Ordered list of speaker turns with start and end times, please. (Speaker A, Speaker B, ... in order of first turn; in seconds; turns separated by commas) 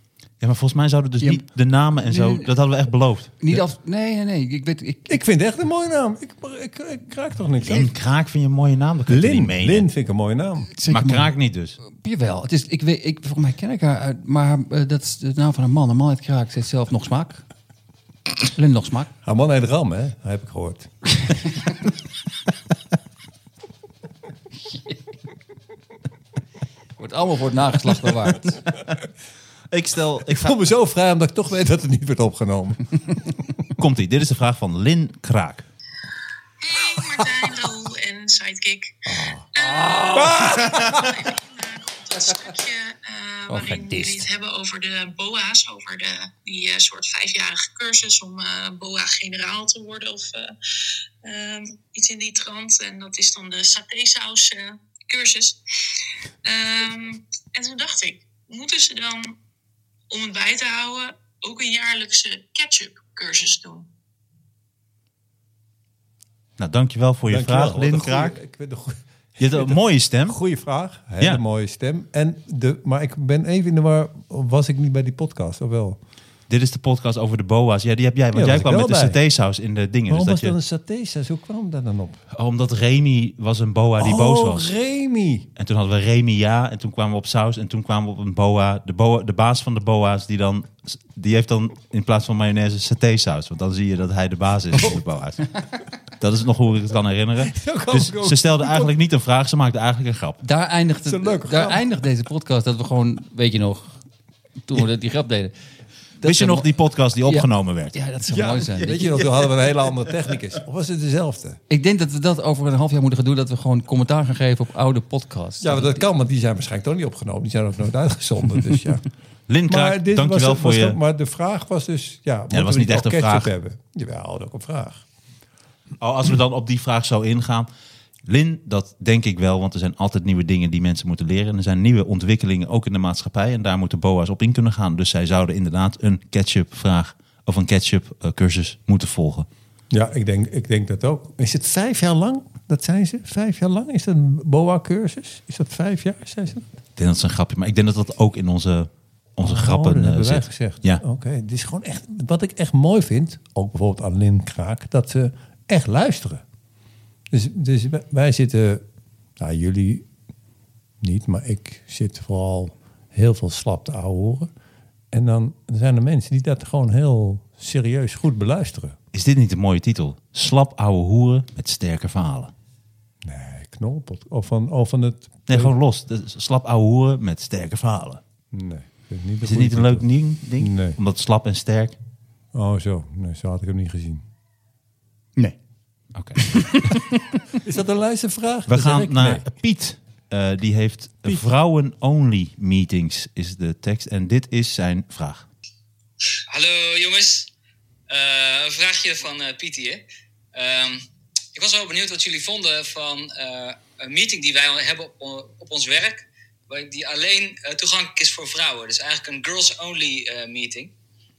Speaker A: 0.4-3.5, Speaker B: 2.0-2.5, Speaker B: 3.4-5.2, Speaker C: 5.1-7.9, Speaker A: 7.6-9.9, Speaker C: 9.1-10.7, Speaker B: 10.8-11.3, Speaker A: 10.9-11.8, Speaker B: 11.9-17.4, Speaker B: 18.5-19.1, Speaker C: 19.2-20.9, Speaker B: 27.0-28.6, Speaker A: 29.7-30.6, Speaker C: 30.3-33.2, Speaker A: 33.8-35.6, Speaker D: 36.6-50.5, Speaker C: 39.0-41.2, Speaker B: 43.5-44.3, Speaker D: 51.2-55.6, Speaker D: 56.4-59.4, Speaker D: 60.1-63.9, Speaker A: 66.6-68.3, Speaker C: 67.3-76.0, Speaker A: 69.4-70.4, Speaker A: 76.5-80.5, Speaker C: 78.3-79.2, Speaker C: 80.1-82.2, Speaker A: 82.3-84.7, Speaker C: 84.0-85.5, Speaker A: 85.5-95.5, Speaker C: 94.7-95.0, Speaker A: 96.2-100.4, Speaker C: 97.4-98.9, Speaker B: 100.4-104.0, Speaker C: 101.0-101.8, Speaker B: 104.6-105.5, Speaker B: 106.2-106.7, Speaker A: 106.2-108.0, Speaker B: 107.3-109.2, Speaker C: 108.3-111.6, Speaker B: 111.7-116.0, Speaker C: 115.6-119.0, Speaker A: 119.5-121.0, Speaker C: 119.7-125.0, Speaker A: 122.5-123.5, Speaker A: 126.0-127.7, Speaker A: 128.2-139.5, Speaker C: 139.9-146.7, Speaker A: 147.0-151.0, Speaker C: 149.4-156.4, Speaker C: 157.3-158.8, Speaker C: 159.4-160.1, Speaker C: 161.0-164.5, Speaker C: 165.1-168.9, Speaker A: 169.1-172.5, Speaker C: 173.2-175.7, Speaker A: 175.5-178.2, Speaker C: 178.5-180.1, Speaker A: 179.4-181.9, Speaker C: 180.6-181.0, Speaker C: 182.5-184.2, Speaker A: 186.1-187.0, Speaker B: 186.4-187.2, Speaker C: 187.6-189.4, Speaker A: 188.7-195.5, Speaker E: 196.5-197.5, Speaker E: 198.1-200.0, Speaker E: 200.5-210.9